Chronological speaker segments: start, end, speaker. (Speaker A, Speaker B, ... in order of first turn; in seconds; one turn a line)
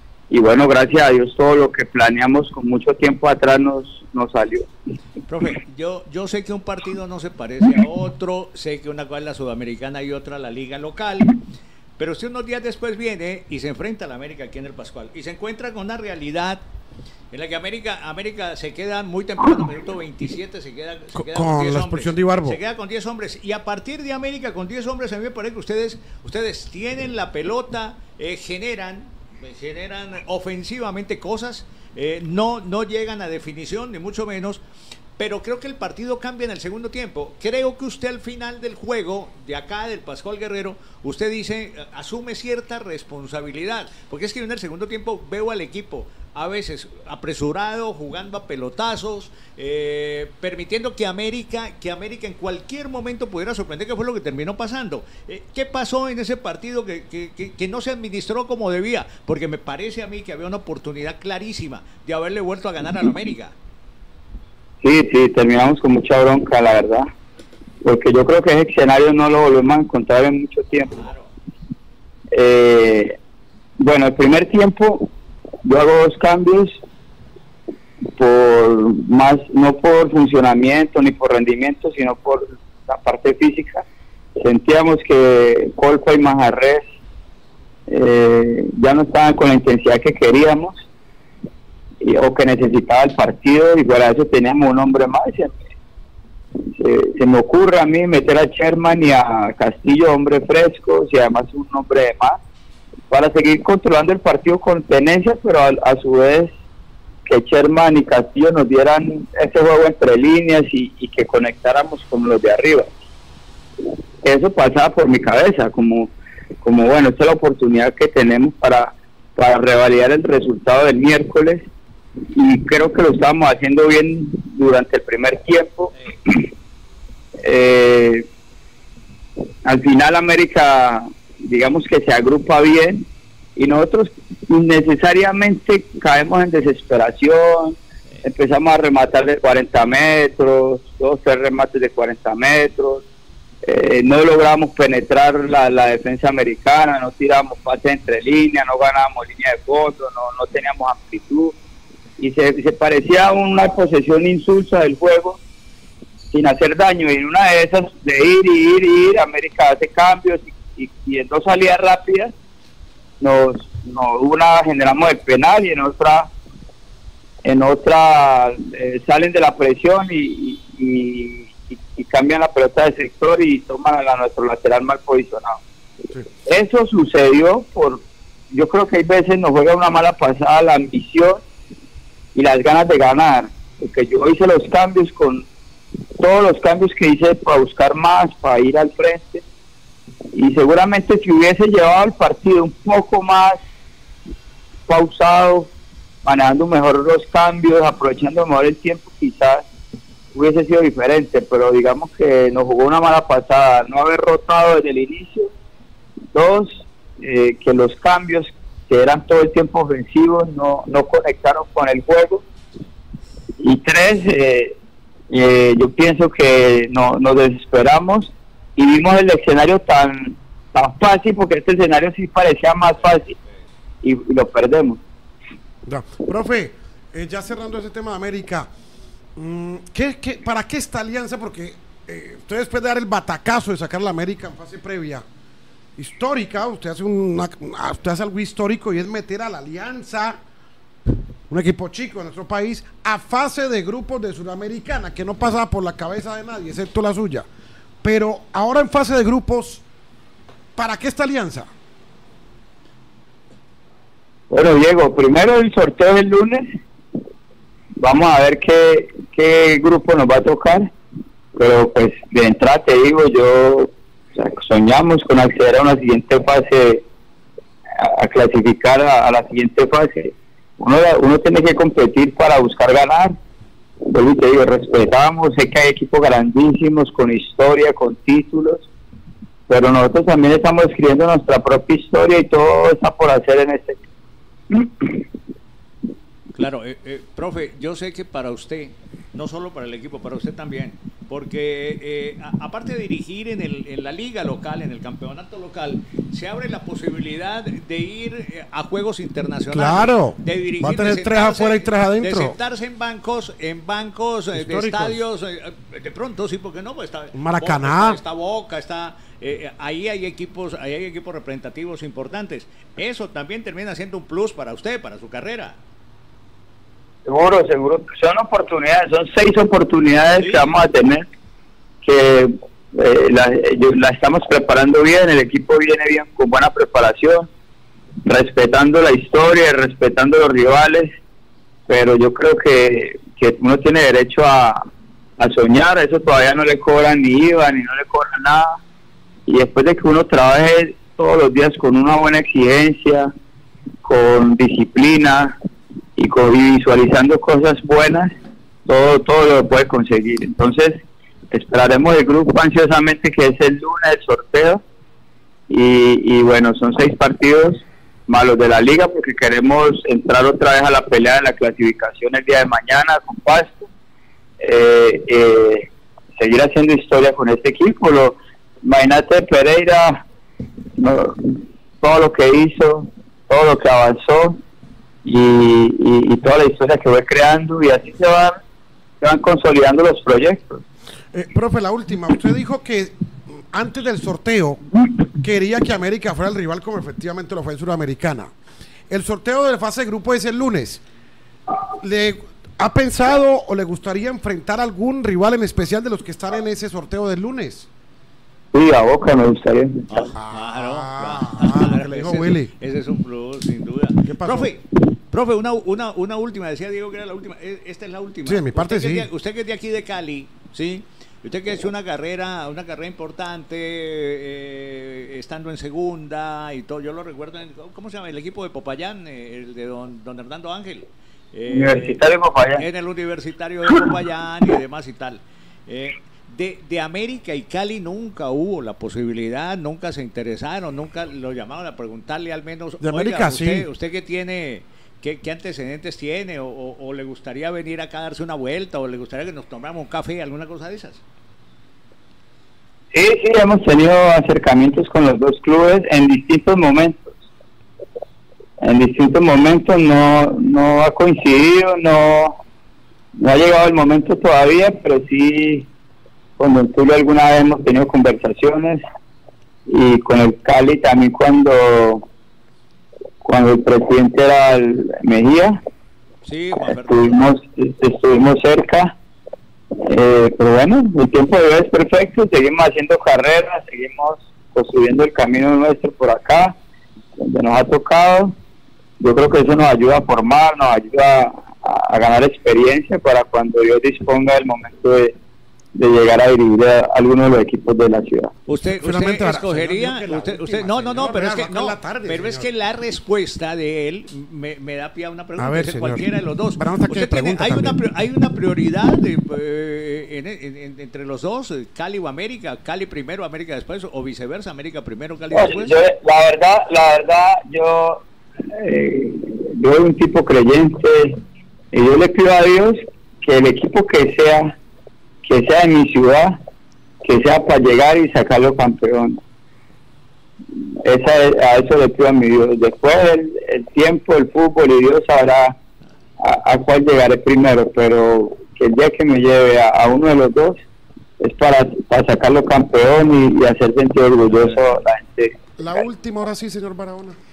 Speaker A: 0.3-4.7
Speaker B: 5.3-11.4
Speaker B: 12.0-16.6
Speaker B: 17.3-34.6
Speaker C: 21.2-22.6
Speaker B: 35.2-63.5
Speaker A: 64.8-67.1
Speaker A: 67.8-71.0
Speaker B: 70.9-71.3
Speaker A: 72.3-73.2
Speaker A: 73.8-75.1
Speaker A: 75.6-76.8
Speaker A: 78.2-83.8
Speaker A: 84.4-86.9
Speaker A: 87.9-90.8
Speaker A: 92.0-95.6
Speaker A: 96.7-102.4
Speaker A: 103.1-106.5
Speaker A: 107.2-112.9
Speaker A: 114.2-121.7
Speaker A: 122.3-126.4
Speaker A: 127.4-128.2
Speaker A: 129.6-133.0
Speaker A: 133.6-143.0
Speaker A: 143.6-151.6
Speaker A: 152.2-155.4
Speaker A: 156.3-162.3
Speaker A: 163.2-166.3
Speaker A: 167.4-175.6
Speaker A: 176.4-181.4
Speaker A: 182.3-185.5
Speaker A: 186.2-189.4
Speaker A: 190.3-193.6
Speaker A: 194.9-195.7
Speaker A: 196.2-199.7
Speaker A: 200.3-205.5
Speaker A: 206.3-212.4
Speaker A: 213.6-214.8
Speaker A: 215.3-223.3
Speaker A: 224.0-225.0
Speaker C: 225.8-228.7
Speaker C: 229.4-235.2
Speaker C: 236.0-240.4
Speaker C: 241.5-247.4
Speaker C: 248.0-249.8
Speaker C: 250.8-251.7
Speaker A: 254.5-256.8
Speaker A: 258.0-260.9
Speaker A: 261.5-267.0
Speaker A: 268.0-273.3
Speaker A: 274.0-278.9
Speaker A: 279.7-284.0
Speaker A: 284.7-285.2
Speaker B: 286.6-315.8
Speaker C: 299.7-302.6
Speaker C: 304.5-305.2
Speaker C: 307.3-308.2
Speaker A: 317.2-321.3
Speaker B: 320.4-320.8
Speaker A: 322.0-327.5
Speaker A: 328.2-331.1
Speaker A: 331.9-334.8
Speaker A: 335.4-338.8
Speaker A: 339.5-343.3
Speaker A: 344.0-345.6
Speaker A: 346.2-348.3
Speaker A: 348.9-351.0
Speaker A: 351.5-354.8
Speaker A: 355.7-363.9
Speaker A: 364.6-370.2
Speaker A: 371.0-374.6
Speaker A: 375.2-378.6
Speaker A: 379.2-380.8
Speaker C: 381.3-383.1
Speaker C: 383.7-384.8
Speaker C: 385.4-388.5
Speaker C: 389.1-391.0
Speaker C: 392.0-397.9
Speaker A: 398.7-400.3
Speaker B: 400.1-422.2
Speaker C: 400.3-402.7
Speaker C: 404.3-404.7
Speaker C: 408.4-409.3
Speaker A: 421.7-422.8
Speaker B: 422.7-441.2
Speaker C: 433.0-433.9
Speaker A: 443.1-447.3
Speaker A: 448.8-452.6
Speaker A: 453.4-455.9
Speaker A: 456.6-459.0
Speaker A: 459.9-462.2
Speaker A: 463.4-465.8
Speaker B: 466.4-467.4
Speaker A: 466.9-469.1
Speaker A: 470.0-476.8
Speaker A: 477.4-478.5
Speaker A: 479.2-485.3
Speaker A: 485.9-488.5
Speaker B: 488.7-505.9
Speaker C: 489.0-492.7
Speaker C: 495.6-498.0
Speaker A: 505.5-508.2
Speaker A: 508.7-511.4
Speaker A: 511.9-514.8
Speaker A: 515.4-516.6
Speaker A: 517.2-519.4
Speaker A: 521.0-525.8
Speaker A: 526.4-530.8
Speaker A: 531.4-536.0
Speaker B: 534.5-535.0
Speaker C: 535.8-537.4